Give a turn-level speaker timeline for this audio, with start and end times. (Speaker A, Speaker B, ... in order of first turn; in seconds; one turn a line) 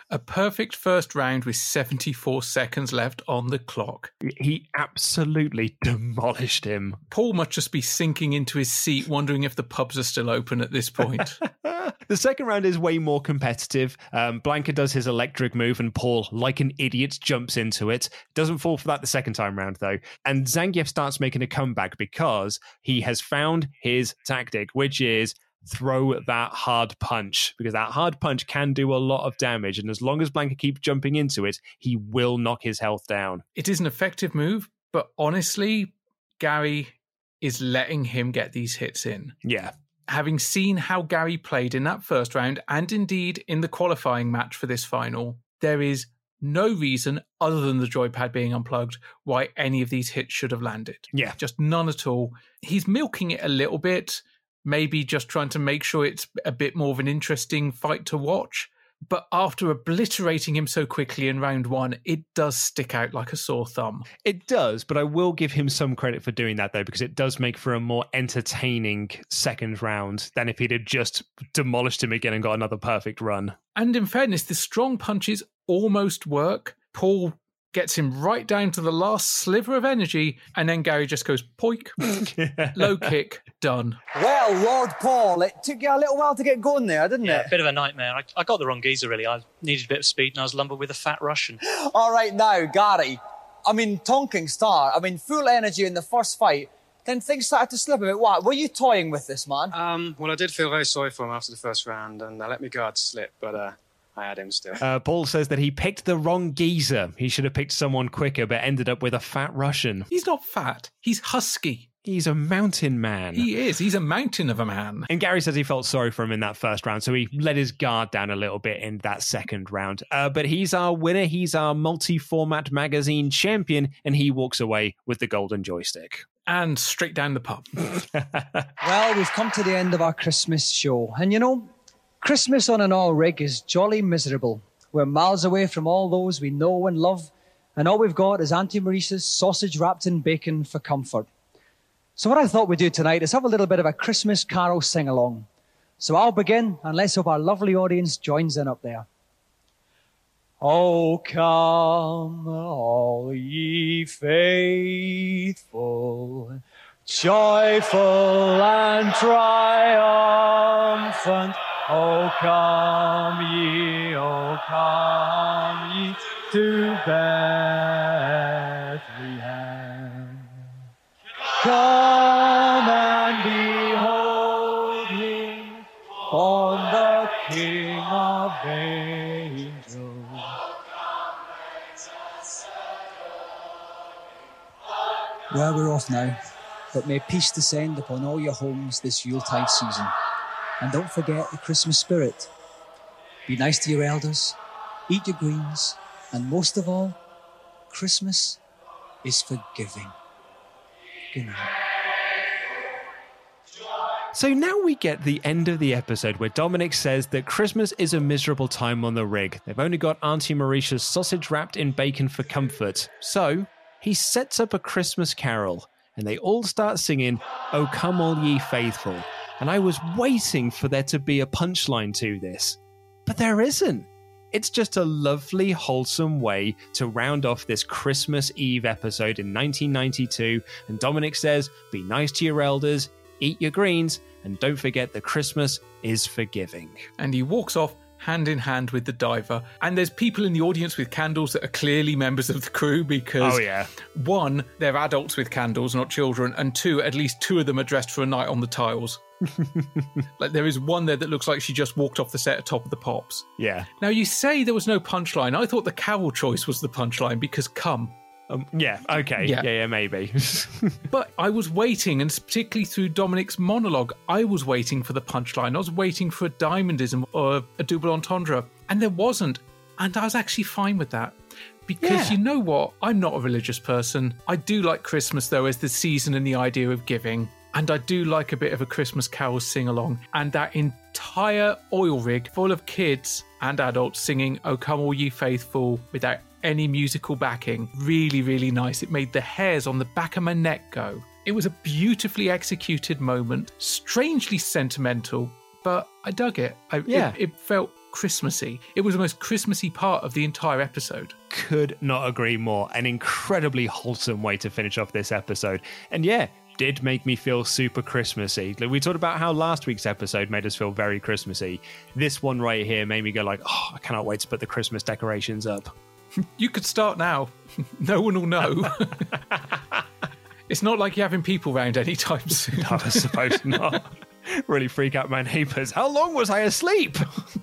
Speaker A: 0.1-4.1
Speaker B: 4.2-7.0
Speaker A: 7.1-11.4
Speaker B: 11.4-33.4
Speaker A: 33.5-39.4
Speaker B: 39.4-39.7
Speaker A: 40.1-64.0
Speaker B: 64.2-73.5
Speaker A: 73.8-82.0
Speaker B: 82.0-83.1
Speaker A: 82.8-84.0
Speaker C: 84.1-87.5
Speaker D: 87.2-91.6
Speaker C: 91.7-99.8
Speaker E: 99.8-104.8
Speaker B: 104.8-110.1
Speaker A: 110.1-111.9
Speaker B: 112.0-113.5
Speaker A: 113.3-115.1
Speaker B: 115.1-126.2
Speaker A: 126.5-127.7
Speaker B: 128.0-128.7
Speaker C: 128.8-131.7
Speaker C: 132.2-141.3
Speaker C: 142.2-145.4
Speaker C: 146.0-149.1
Speaker C: 150.6-170.5
Speaker C: 171.6-180.5
Speaker C: 185.5-186.4
Speaker C: 186.9-190.1
Speaker C: 190.8-192.5
Speaker C: 193.5-194.6
Speaker C: 195.1-197.2
Speaker C: 197.9-198.6
Speaker C: 199.2-200.1
Speaker C: 201.3-201.7
Speaker B: 204.3-237.1
Speaker A: 237.2-249.2
Speaker B: 243.4-243.9
Speaker B: 249.6-250.2
Speaker A: 250.4-253.5
Speaker B: 253.6-253.9
Speaker A: 254.0-258.1
Speaker B: 258.5-261.0
Speaker A: 259.4-259.6
Speaker A: 261.1-271.4
Speaker A: 271.9-301.4
Speaker B: 272.0-272.4
Speaker B: 297.1-297.4
Speaker B: 301.5-315.9
Speaker A: 316.6-319.2
Speaker A: 320.7-323.6
Speaker B: 322.8-327.2